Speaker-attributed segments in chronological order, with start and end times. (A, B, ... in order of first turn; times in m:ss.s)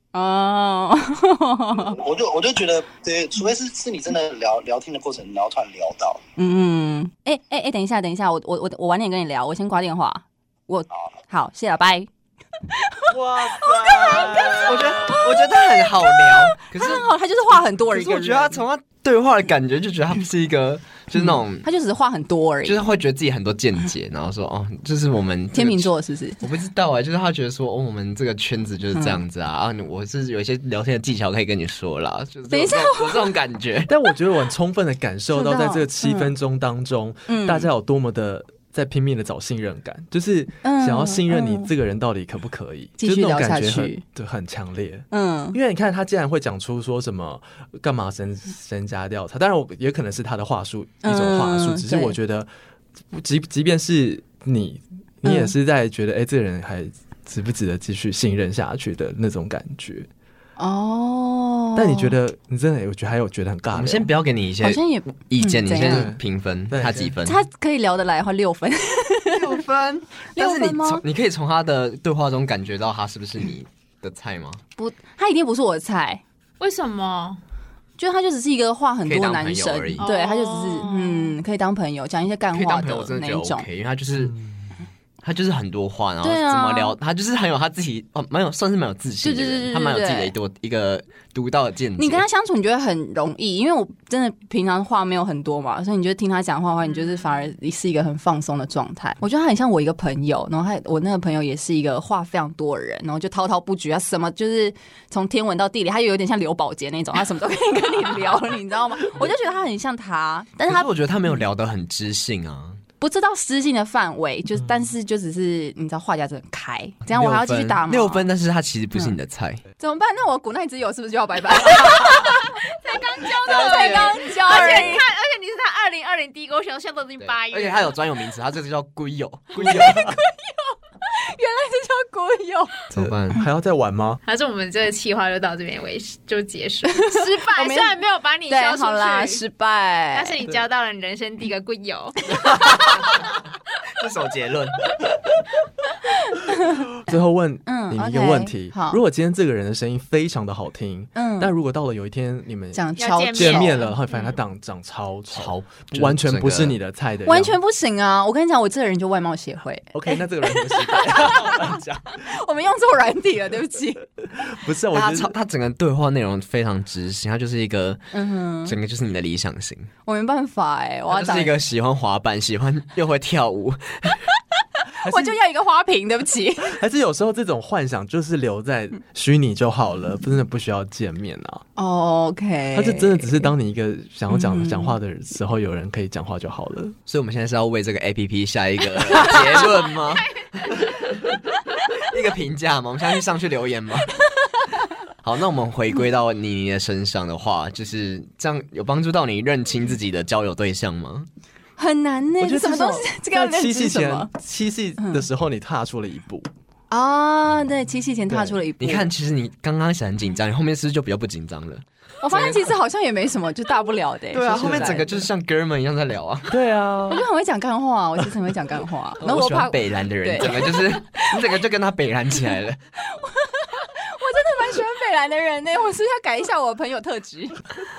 0:00.1-0:02.0 A
0:01.7-0:06.2 B
0:06.4-0:12.1 A
0:12.7-0:13.0 A
0:13.1-0:17.1 C
0:13.3-0:15.0 D
0:13.6-0:18.6 A
0:17.9-0:21.6 C
0:21.2-0:22.8 A
0:22.6-0:33.9 C
0:25.5-0:26.4 A
0:32.5-0:33.3 A
0:33.9-0:52.5 D
0:35.3-0:36.3 A
0:37.3-0:37.7 A
0:40.6-0:41.7 A
0:43.0-0:44.0 A
0:45.1-0:45.6 A
0:51.0-0:52.1 A
0:53.1-1:00.1 D
0:55.2-0:55.5 A
1:00.6-1:02.2 A
1:01.7-1:04.1 D
1:03.7-1:07.4 C
1:04.6-1:06.1 A
1:05.8-1:06.2 D
1:06.7-1:07.1 D
1:07.2-1:09.6 A
1:09.3-1:14.6 C
1:10.3-1:11.0 A
1:14.8-1:16.2 A
1:16.6-1:17.4 E
1:18.0-1:23.6 A
1:19.0-1:20.0 C
1:20.0-1:21.4 E
1:22.5-1:24.4 C
1:25.2-1:32.2 C
1:26.2-1:27.0 A
1:29.2-1:30.3 A
1:32.0-1:50.9 A
1:50.7-1:52.8 C
1:53.0-1:58.3 A
1:57.1-1:59.6 C
1:59.8-2:02.5 A
2:02.7-2:07.9 E
2:03.4-2:05.0 A
2:03.5-2:04.9 C
2:07.2-2:10.1 C
2:09.6-2:12.8 A
2:12.9-2:13.4 C
2:12.9-2:14.2 D
2:14.2-2:19.4 E
2:17.0-2:18.0 A
2:18.5-2:20.4 A
2:20.1-2:22.5 E
2:22.5-2:23.1 C
2:24.0-2:24.8 C
2:26.3-2:26.8 A
2:27.1-2:37.6 D
2:27.6-2:29.0 A
2:31.1-2:31.5 A
2:32.7-2:33.8 A
2:33.0-2:33.9 E
2:35.3-2:36.8 C
2:37.2-2:44.0 A
2:39.9-2:42.2 D
2:44.3-2:45.3 D
2:44.9-2:48.1 C
2:48.1-2:48.8 A
2:48.6-2:49.9 C
2:50.0-2:51.5 A
2:51.1-2:54.2 C
2:55.0-2:55.4 D
2:55.0-2:56.8 A
2:56.6-3:01.6 D
3:01.8-3:03.5 A
3:02.7-3:06.9 D
3:04.3-3:05.0 A
3:07.1-3:11.4 C
3:11.9-3:14.2 C
3:14.4-3:14.8 A
3:15.2-3:21.3 C
3:21.8-3:24.3 A
3:22.4-3:26.5 D
3:25.0-3:25.2 A
3:26.9-3:29.1 A
3:28.3-3:28.6 D
3:28.8-3:32.7 C
3:32.2-3:35.2 A
3:34.3-3:36.6 C
3:34.5-3:35.0 D
3:36.5-3:37.2 D
3:37.1-3:41.3 A
3:39.2-3:42.8 C
3:43.1-3:47.6 A